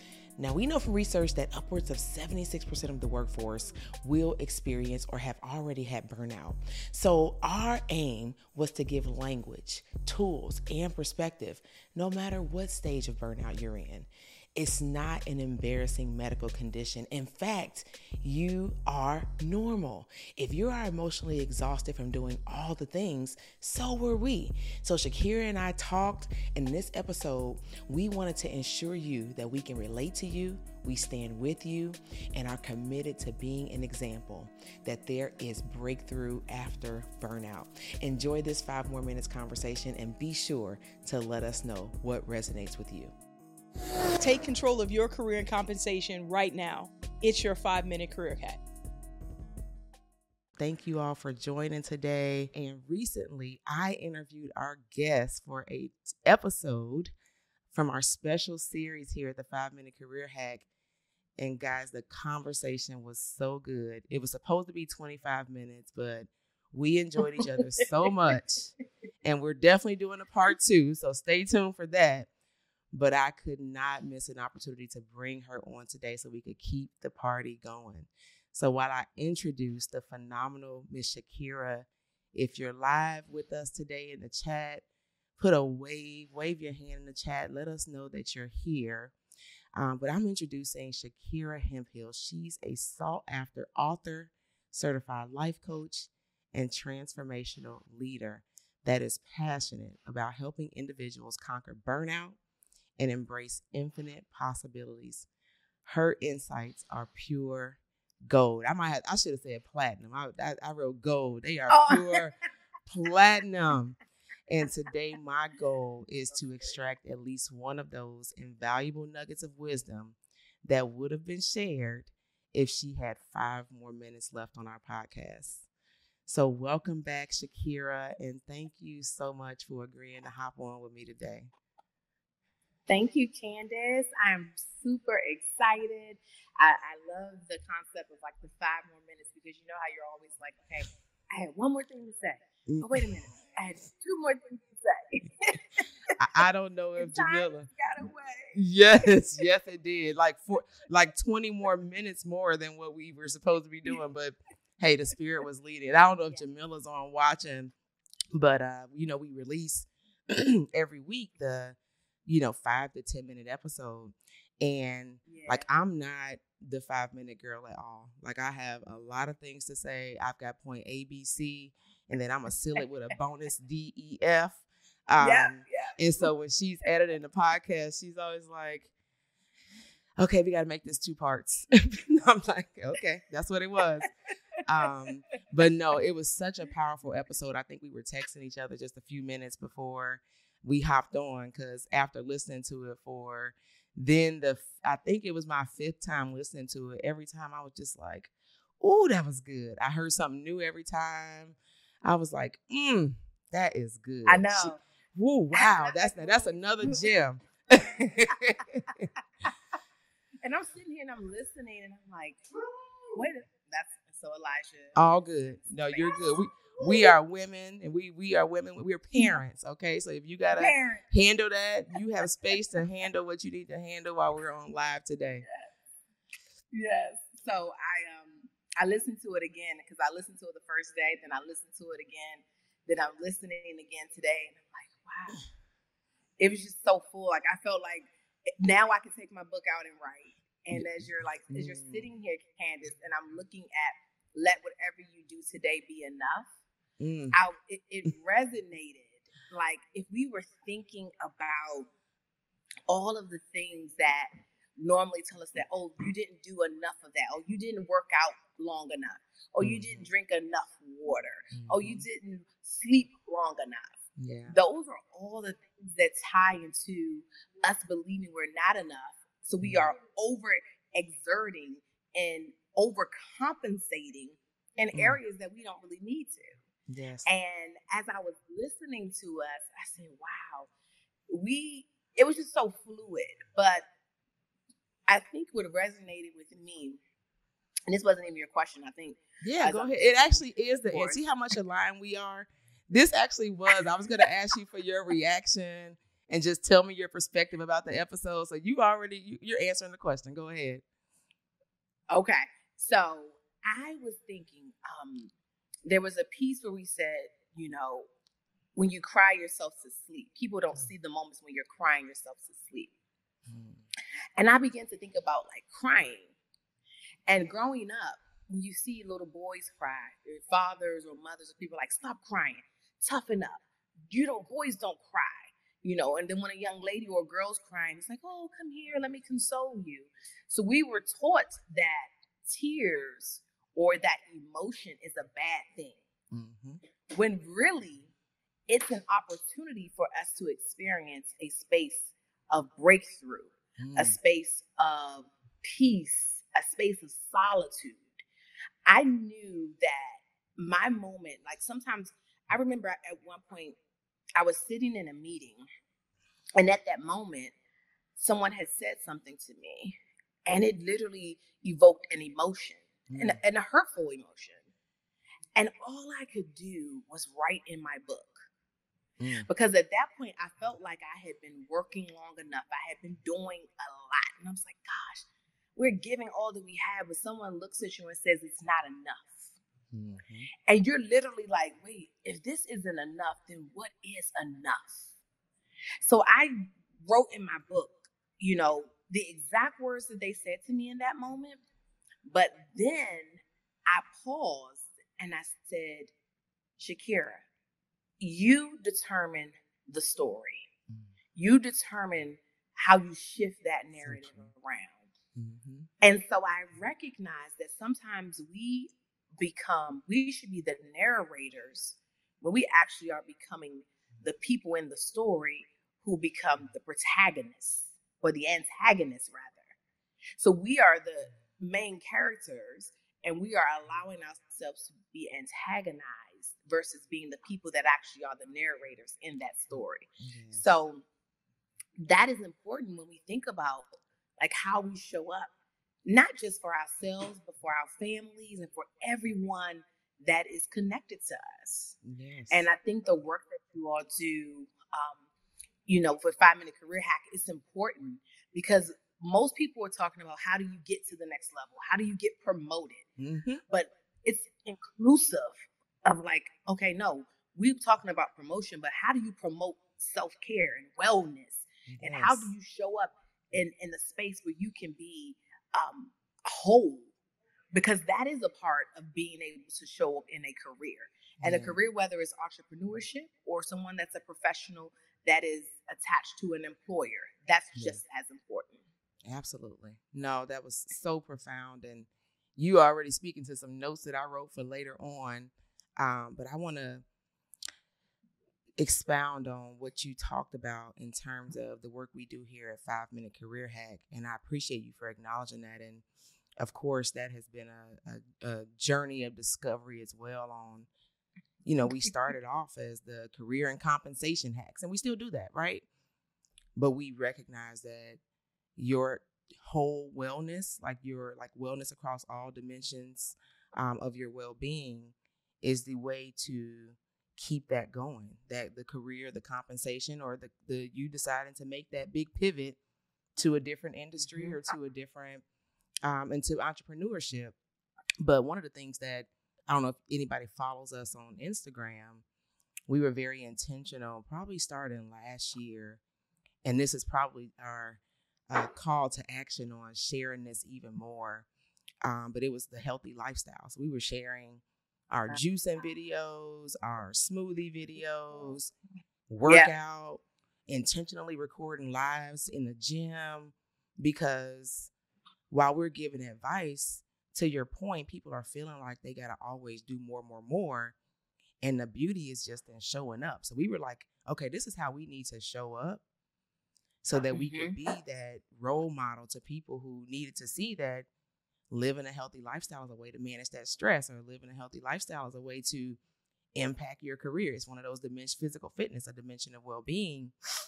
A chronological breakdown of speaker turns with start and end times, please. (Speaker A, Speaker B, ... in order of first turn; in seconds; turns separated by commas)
Speaker A: 0.4-43.1, Speaker B: 44.2-48.6, Speaker A: 50.6-57.1, Speaker A: 57.7-60.6, Speaker A: 61.4-68.7, Speaker C: 67.4-67.8, Speaker A: 69.2-72.3, Speaker A: 72.9-84.8, Speaker A: 85.4-89.1, Speaker A: 89.7-102.4, Speaker A: 103.0-105.3, Speaker A: 105.8-112.3, Speaker C: 111.7-112.2, Speaker A: 112.9-114.0, Speaker A: 114.5-125.7, Speaker A: 126.2-131.5, Speaker C: 132.9-145.8, Speaker A: 142.7-143.0, Speaker A: 146.2-147.7, Speaker C: 147.0-148.6, Speaker A: 148.5-157.7, Speaker A: 158.3-178.9, Speaker C: 165.3-165.7, Speaker C: 175.2-176.3, Speaker A: 180.2-184.1, Speaker A: 184.7-209.1, Speaker C: 204.2-204.8, Speaker C: 205.5-207.1, Speaker C: 210.4-212.4, Speaker C: 213.1-215.0, Speaker A: 214.9-225.4, Speaker C: 215.9-217.1, Speaker C: 220.5-221.0, Speaker C: 226.7-235.4, Speaker C: 236.4-246.5, Speaker A: 241.5-242.1, Speaker A: 247.0-247.4, Speaker C: 247.3-251.9, Speaker C: 252.9-264.0, Speaker A: 259.6-260.1, Speaker A: 261.5-262.1, Speaker A: 264.2-264.6, Speaker C: 264.5-276.6, Speaker A: 269.6-269.9, Speaker A: 274.9-275.2, Speaker A: 276.9-277.3, Speaker C: 277.2-280.7, Speaker C: 281.3-283.8, Speaker C: 285.1-287.0, Speaker C: 287.9-291.2, Speaker A: 289.4-300.8, Speaker C: 302.1-305.3, Speaker C: 305.9-308.1, Speaker C: 308.7-312.9, Speaker A: 313.5-313.8, Speaker C: 314.4-316.3, Speaker C: 317.3-336.0, Speaker A: 336.3-336.8, Speaker C: 337.1-338.1, Speaker C: 338.7-348.2, Speaker A: 343.8-344.1, Speaker C: 348.8-353.8, Speaker C: 354.4-355.7, Speaker C: 356.6-357.5, Speaker C: 358.1-364.7, Speaker A: 363.1-363.4, Speaker C: 365.5-368.5, Speaker A: 369.2-369.5, Speaker C: 369.4-379.5, Speaker A: 379.9-380.5, Speaker C: 380.6-385.1, Speaker C: 386.0-391.6, Speaker C: 392.2-396.1, Speaker C: 396.8-397.4, Speaker C: 398.2-400.7, Speaker C: 401.3-405.1, Speaker A: 404.0-404.5, Speaker A: 405.3-405.9, Speaker C: 406.0-419.7, Speaker C: 420.4-431.0, Speaker A: 430.2-430.6, Speaker C: 432.0-435.5, Speaker C: 436.1-441.9, Speaker A: 442.0-442.7, Speaker C: 442.5-445.2, Speaker C: 445.9-453.0, Speaker A: 453.2-453.6, Speaker C: 453.7-467.1, Speaker A: 461.9-462.5, Speaker C: 467.7-478.8, Speaker A: 471.4-471.8, Speaker A: 477.7-478.0, Speaker A: 479.2-487.0, Speaker A: 488.8-496.0, Speaker A: 496.6-500.9, Speaker A: 501.6-505.8, Speaker A: 506.8-508.2, Speaker A: 508.8-522.8, Speaker A: 523.4-525.4, Speaker C: 524.2-524.5, Speaker A: 526.0-527.5, Speaker A: 528.2-532.2, Speaker A: 532.9-536.0, Speaker A: 536.6-541.5, Speaker A: 542.0-548.7, Speaker A: 549.3-554.9, Speaker A: 555.5-560.9, Speaker A: 561.6-566.0, Speaker A: 567.0-571.1, Speaker C: 567.3-567.7, Speaker A: 571.7-576.0, Speaker A: 576.5-580.3